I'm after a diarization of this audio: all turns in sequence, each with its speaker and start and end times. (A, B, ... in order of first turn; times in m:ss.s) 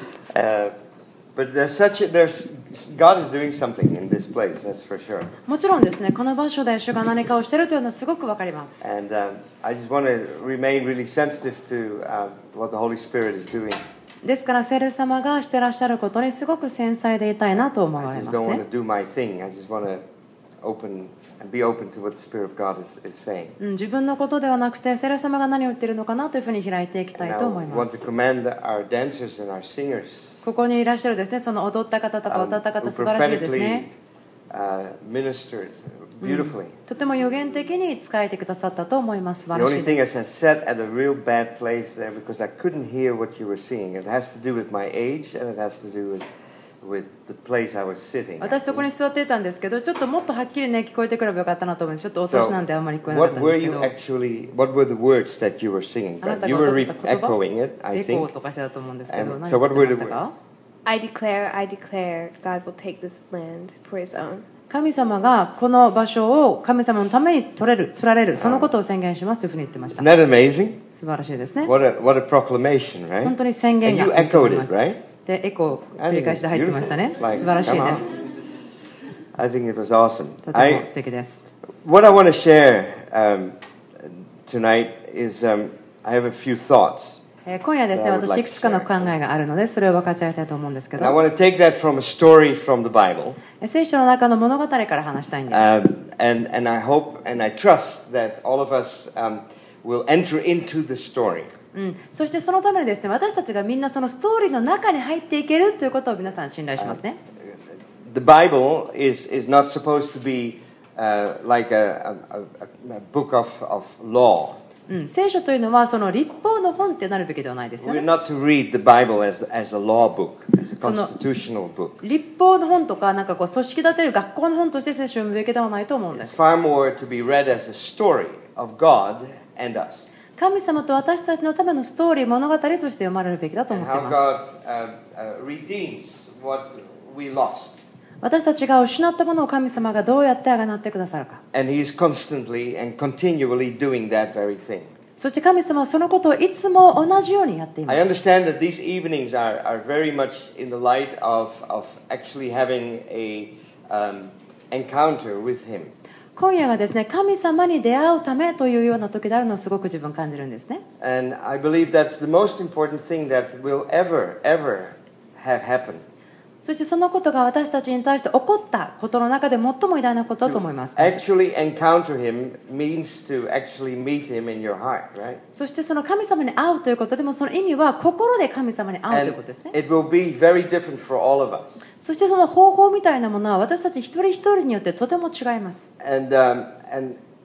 0:00.3-0:00.7 A
0:01.4-0:05.3 A
0:05.5-0:08.8 B
0:08.8-0:13.8 A
0:14.2-0:18.6 B
0:18.0-0:20.0 A
0:20.6-0:23.6 A
0:23.6-0:28.1 B
0:27.2-0:30.4 A
0:30.4-0:33.8 B
0:32.3-0:33.9 A
0:34.5-0:36.8 A
0:36.2-0:39.9 B
0:39.5-0:46.2 A
0:46.8-0:48.9 A
0:48.4-0:53.9 B
0:52.3-0:58.3 A
0:56.2-0:57.4 B
0:57.9-1:00.3 B
0:59.1-1:00.2 A
1:00.9-1:04.5 C
1:04.7-1:10.1 B
1:08.4-1:08.7 A
1:09.9-1:10.8 A
1:11.0-1:11.7 B
1:11.6-1:15.0 A
1:13.2-1:14.7 B
1:15.3-1:18.1 B
1:16.0-1:18.1 A
1:19.4-1:20.9 A
1:20.5-1:21.4 B
1:21.8-1:27.2 A
1:27.4-1:31.2 B
1:27.9-1:29.2 A
1:31.0-1:33.4 A
1:33.6-1:35.6 B
1:35.5-1:41.5 A
1:41.7-1:47.2 B
1:48.0-1:54.6 A
1:54.9-1:58.0 B
1:57.8-2:02.0 A
2:00.8-2:01.1 B
2:02.0-2:06.4 B
2:06.1-2:10.1 A
2:10.4-2:14.2 B
2:13.7-2:17.8 A
2:18.2-2:21.4 B
2:21.5-2:24.9 A
2:25.2-2:28.0 B
2:27.9-2:35.9 A
2:36.4-2:40.8 B
2:41.0-2:46.0 A
2:46.6-2:51.2 B
2:50.4-2:55.4 A
2:55.6-2:59.7 B
2:59.1-3:01.8 A
3:02.0-3:05.9 B
3:06.0-3:07.2 A